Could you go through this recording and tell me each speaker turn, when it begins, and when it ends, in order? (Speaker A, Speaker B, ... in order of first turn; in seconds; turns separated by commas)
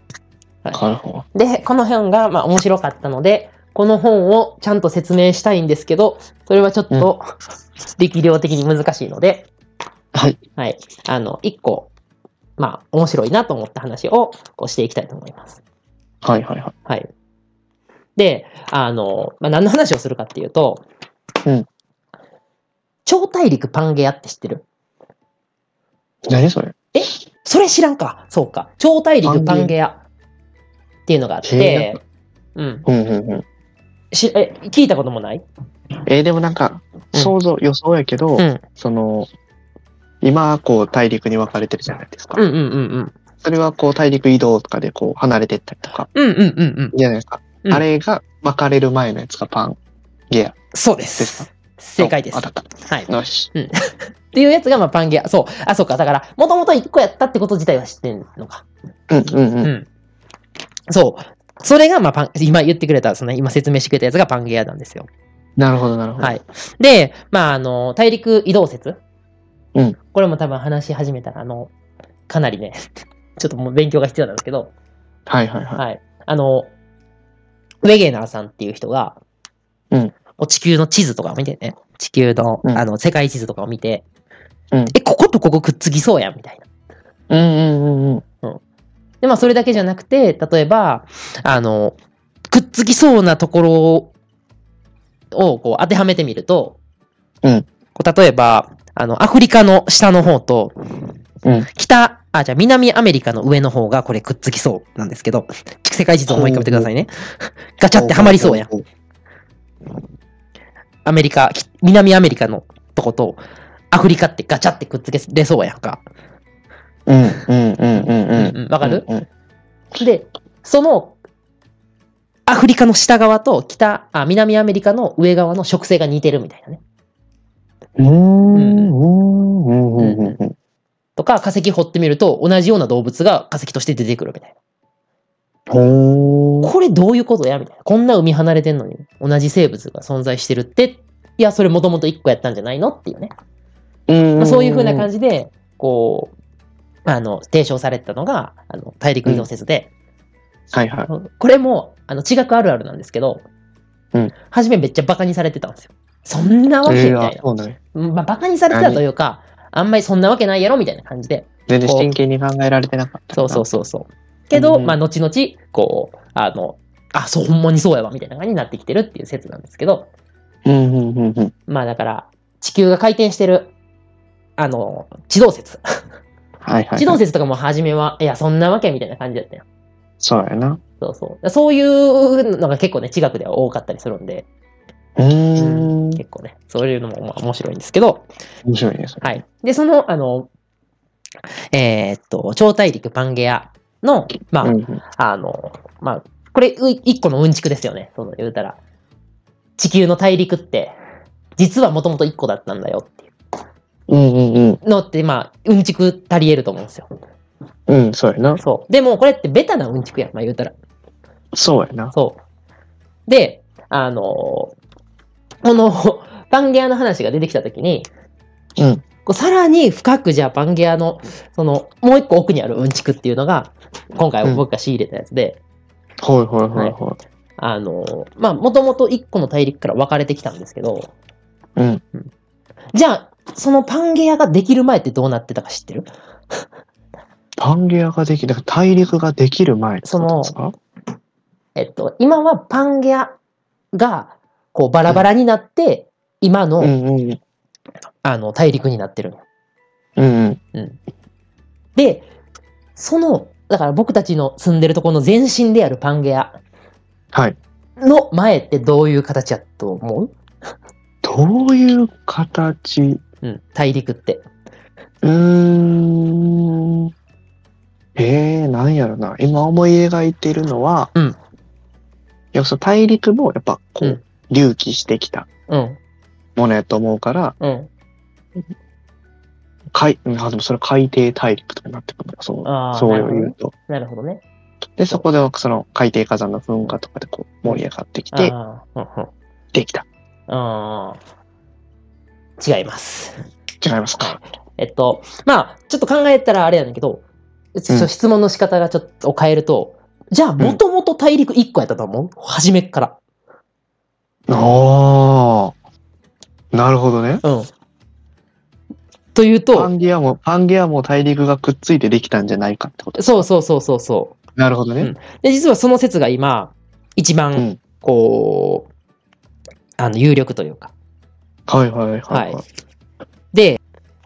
Speaker A: 0.7-1.2, Speaker B: 1.3-7.2, Speaker B: 8.0-9.5, Speaker B: 10.6-11.9, Speaker B: 12.6-15.6, Speaker A: 16.2-16.7, Speaker B: 18.1-20.8, Speaker B: 23.1-24.6, Speaker A: 26.2-26.8, Speaker B: 26.9-30.0, Speaker A: 29.2-29.7, Speaker B: 31.1-32.0, Speaker A: 31.4-32.0, Speaker B: 32.5-32.8, Speaker A: 32.9-33.4, Speaker B: 34.1-35.4, Speaker A: 36.0-39.3, Speaker B: 38.4-38.6, Speaker A: 40.2-42.4, Speaker B: 42.4-43.1, Speaker A: 43.4-46.1, Speaker B: 46.1-46.9, Speaker A: 46.9-49.8, Speaker A: 50.3-50.5, Speaker B: 50.7-58.6, Speaker A: 51.2-53.5, Speaker A: 59.1-59.7, Speaker B: 60.9-65.1, Speaker A: 65.6-66.4, Speaker B: 66.2-69.0, Speaker B: 70.1-71.7, Speaker B: 72.3-74.7, Speaker A: 75.3-75.8, Speaker B: 75.8-76.7, Speaker B: 77.8-79.2, Speaker B: 80.4-84.0, Speaker B: 84.9-86.6, Speaker A: 87.3-88.2, Speaker B: 89.2-92.0, Speaker B: 92.5-94.1, Speaker B: 95.3-96.8, Speaker B: 97.9-101.1, Speaker B: 101.8-108.7, Speaker A: 106.3-106.9, Speaker A: 107.9-108.8, Speaker B: 111.0-113.4, Speaker B: 113.9-116.0, Speaker A: 117.1-119.2, Speaker B: 118.3-119.0, Speaker B: 120.0-121.2, Speaker B: 122.5-126.8, Speaker A: 128.0-130.5, Speaker B: 128.5-128.9, Speaker B: 130.0-130.4, Speaker B: 131.2-134.5, Speaker A: 135.7-136.7, Speaker B: 136.6-143.3, Speaker A: 144.1-145.1, Speaker B: 144.4-146.3, Speaker B: 147.1-149.9, Speaker A: 150.7-151.1, Speaker B: 151.1-153.4, Speaker B: 154.5-157.4, Speaker A: 156.8-157.8, Speaker B: 157.9-162.1, Speaker A: 158.7-159.0, Speaker A: 161.7-163.7, Speaker B: 163.3-170.1, Speaker A: 164.5-165.0, Speaker A: 170.7-171.5, Speaker B: 171.7-173.7, Speaker B: 174.6-175.8, Speaker A: 176.6-177.2, Speaker B: 177.0-179.6, Speaker A: 180.2-180.8, Speaker B: 181.0-184.4, Speaker A: 185.2-186.2, Speaker B: 185.6-188.2, Speaker A: 188.7-189.4, Speaker B: 189.2-190.5, Speaker B: 191.7-198.8, Speaker A: 194.6-195.0, Speaker B: 199.8-200.9, Speaker B: 201.6-203.3, Speaker A: 204.1-204.8, Speaker B: 204.8-207.1, Speaker A: 207.9-208.6, Speaker B: 208.6-210.7, Speaker A: 211.5-212.1, Speaker B: 212.1-212.4, Speaker B: 213.3-214.7, Speaker B: 215.6-218.1, Speaker A: 218.8-219.0, Speaker B: 219.2-225.6, Speaker A: 226.2-227.2, Speaker B: 227.6-231.1, Speaker A: 231.8-232.0, Speaker B: 232.9-236.1, Speaker A: 237.6-240.7, Speaker B: 240.0-240.5, Speaker B: 241.8-243.3, Speaker B: 243.9-246.9, Speaker A: 246.8-247.4, Speaker B: 248.2-249.4, Speaker A: 250.2-250.6, Speaker B: 251.9-252.3, Speaker B: 252.9-256.6, Speaker B: 258.0-260.3, Speaker A: 261.2-263.2, Speaker B: 263.4-264.4, Speaker A: 265.2-267.1, Speaker A: 268.1-271.1, Speaker A: 272.5-275.5, Speaker B: 275.7-276.0, Speaker A: 276.6-277.6, Speaker B: 277.6-277.9, Speaker A: 279.9-283.7, Speaker B: 282.6-284.4, Speaker A: 285.0-288.5, Speaker B: 287.7-289.3, Speaker A: 289.7-290.1, Speaker B: 290.5-291.2, Speaker B: 292.6-293.3, Speaker A: 293.8-294.4, Speaker B: 294.2-297.2, Speaker B: 297.7-303.2, Speaker A: 304.5-305.7, Speaker A: 306.7-307.4, Speaker B: 307.4-307.7, Speaker B: 309.3-309.9, Speaker A: 309.7-313.4, Speaker B: 313.2-314.3, Speaker A: 314.6-315.1, Speaker B: 315.0-318.9, Speaker B: 320.0-320.9, Speaker A: 321.7-322.6, Speaker B: 322.3-322.6, Speaker B: 323.5-323.8